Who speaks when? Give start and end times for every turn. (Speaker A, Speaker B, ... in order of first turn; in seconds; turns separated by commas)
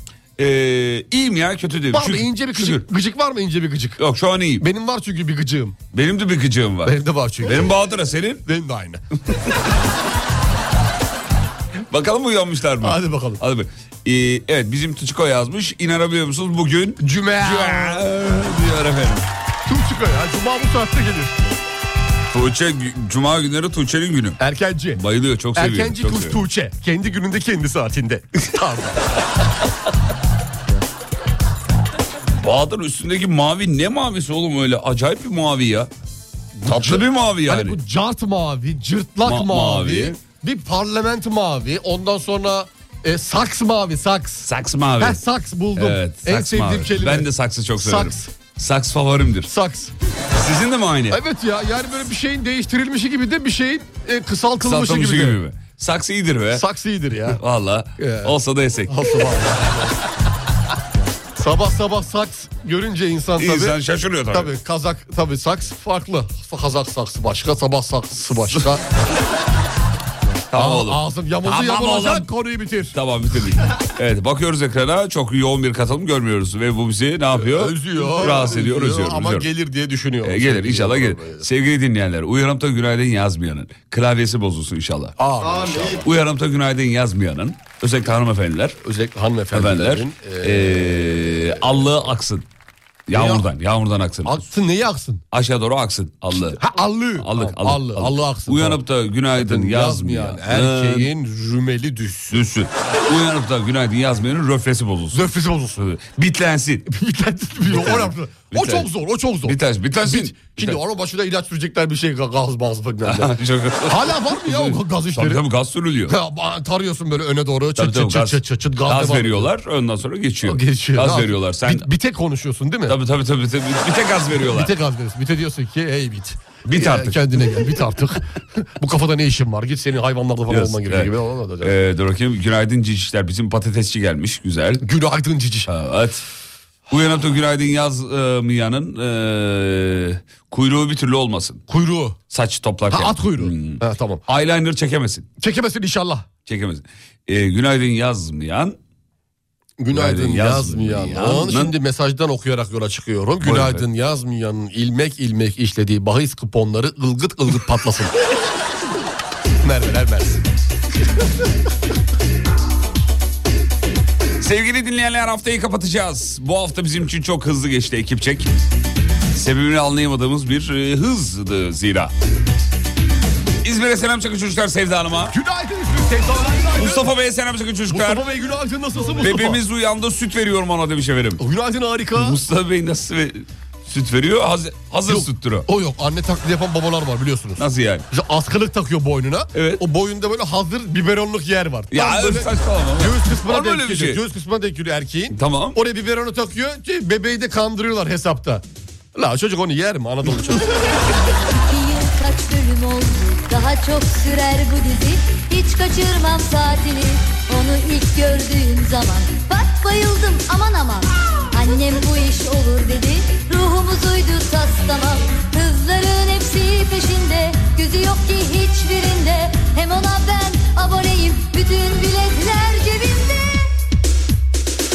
Speaker A: 0.4-2.9, Speaker B: 1.9-4.0, Speaker A: 4.0-4.6, Speaker B: 4.6-5.8, Speaker A: 5.9-8.4, Speaker B: 6.8-7.7, Speaker B: 8.5-9.0, Speaker A: 11.9-19.3, Speaker B: 12.8-13.4, Speaker B: 17.0-18.1, Speaker B: 19.7-21.6, Speaker A: 22.3-24.4, Speaker B: 24.4-25.0, Speaker A: 25.0-26.4, Speaker B: 25.6-29.0, Speaker A: 32.4-35.9, Speaker B: 36.6-48.3, Speaker A: 36.7-37.8, Speaker A: 39.3-40.2, Speaker A: 44.4-45.2, Speaker A: 45.8-49.5, Speaker B: 49.5-49.9, Speaker A: 50.4-51.2, Speaker B: 51.1-55.4, Speaker A: 54.6-56.6, Speaker B: 56.5-57.4, Speaker A: 57.3-59.2, Speaker B: 58.0-60.0, Speaker B: 61.4-63.8, Speaker A: 63.4-64.5, Speaker B: 64.3-68.8, Speaker A: 70.5-72.3, Speaker B: 70.5-73.0, Speaker A: 72.9-79.5, Speaker B: 77.4-81.5, Speaker A: 80.2-85.2, Speaker B: 85.2-86.0, Speaker A: 86.0-88.8, Speaker B: 88.8-92.1, Speaker A: 89.5-92.5, Speaker A: 93.1-94.4, Speaker B: 93.1-93.5, Speaker B: 94.3-95.2, Speaker A: 95.3-96.6, Speaker B: 96.4-98.8, Speaker A: 97.2-101.1, Speaker B: 99.3-102.4, Speaker A: 102.3-106.8, Speaker B: 105.1-105.8, Speaker B: 106.9-115.5, Speaker A: 107.6-108.9, Speaker A: 109.5-110.8, Speaker A: 113.1-116.1, Speaker B: 116.1-119.5, Speaker A: 117.8-121.9, Speaker B: 120.4-123.0, Speaker A: 122.9-124.7, Speaker B: 124.4-131.7, Speaker A: 126.7-127.5, Speaker A: 130.5-131.1, Speaker A: 131.6-134.8, Speaker B: 134.8-135.7, Speaker A: 135.7-136.2, Speaker A: 136.9-141.6, Speaker B: 141.7-142.2, Speaker A: 142.3-145.3, Speaker B: 142.9-144.2, Speaker B: 145.4-146.3, Speaker A: 146.5-148.8, Speaker B: 149.8-158.1, Speaker A: 149.9-151.7, Speaker A: 153.4-153.8, Speaker B: 159.6-160.4, Speaker A: 164.4-168.5, Speaker A: 169.3-172.1, Speaker A: 173.6-175.3, Speaker B: 175.3-177.1, Speaker A: 176.8-178.2, Speaker B: 177.9-179.6, Speaker A: 179.2-181.4, Speaker B: 181.4-182.4, Speaker A: 182.2-185.7, Speaker B: 185.1-198.6, Speaker A: 187.6-188.0, Speaker A: 189.5-189.8, Speaker A: 191.9-194.2, Speaker A: 195.3-195.8, Speaker B: 199.2-201.1, Speaker C: 201.5-223.7